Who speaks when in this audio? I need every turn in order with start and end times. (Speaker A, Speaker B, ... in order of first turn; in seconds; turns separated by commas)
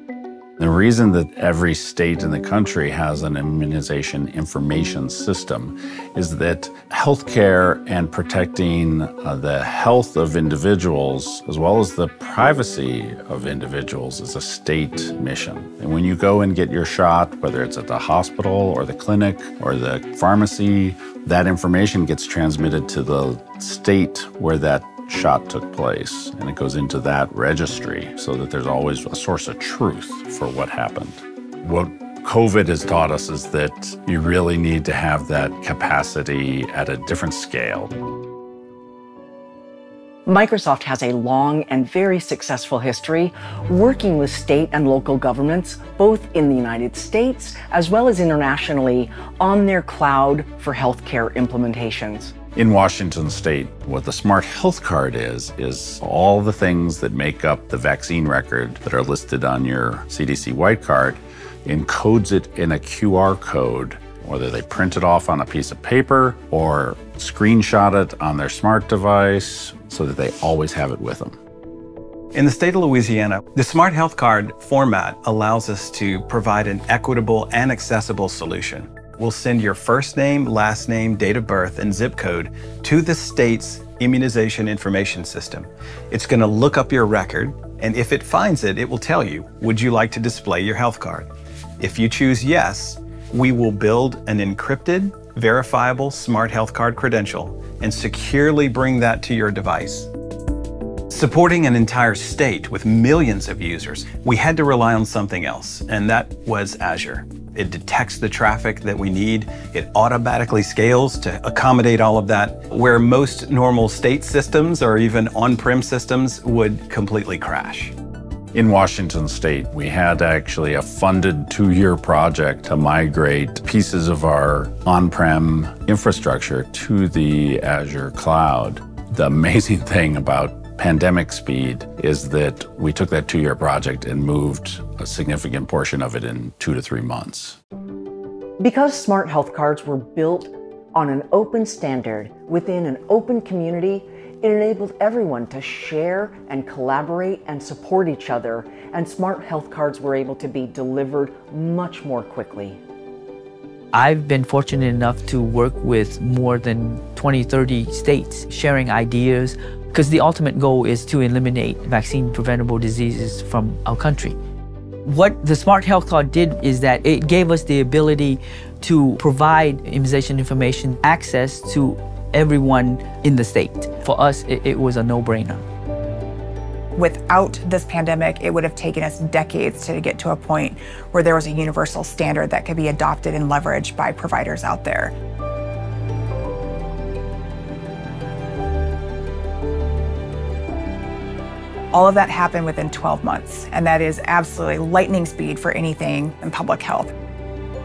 Speaker A: 0.6-38.0, Speaker B: 40.3-52.3, Speaker A: 52.6-71.4, Speaker C: 72.3-91.3, Speaker C: 91.8-100.1, Speaker C: 101.1-117.9, Speaker A: 118.5-137.6, Speaker B: 138.6-152.8, Speaker D: 153.9-164.4, Speaker D: 165.1-175.6, Speaker E: 177.0-185.1, Speaker E: 191.9-197.1